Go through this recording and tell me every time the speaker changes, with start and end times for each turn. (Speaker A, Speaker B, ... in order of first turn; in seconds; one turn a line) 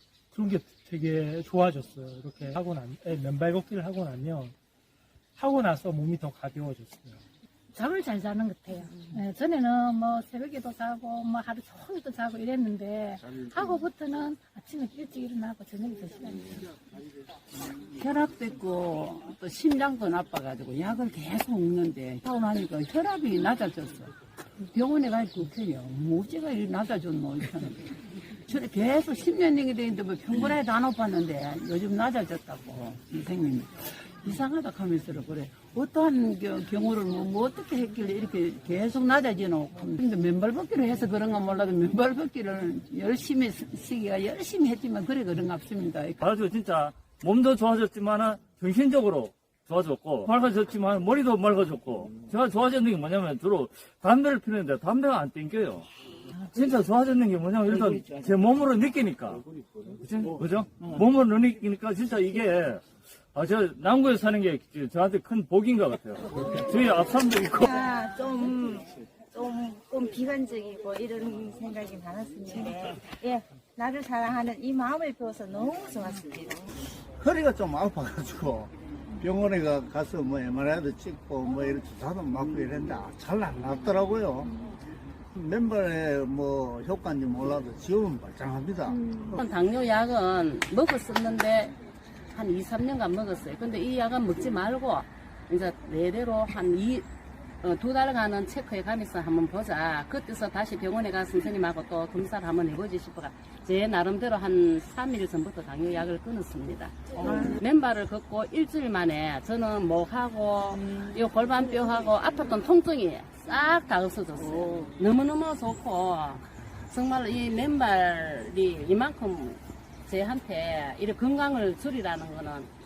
Speaker A: 0.3-4.5
Speaker A: 5.4-7.2
Speaker B: 7.7-16.7
Speaker C: 17.9-24.1
Speaker C: 24.7-27.9
Speaker C: 28.5-46.2
Speaker D: 46.2-55.9
Speaker D: 56.5-59.5
Speaker D: 60.0-62.8
Speaker D: 63.3-67.8
Speaker E: 67.7-76.7
Speaker F: 77.2-84.5
Speaker F: 85.3-89.4
Speaker G: 89.4-91.8
Speaker G: 92.3-97.1
Speaker G: 97.6-122.7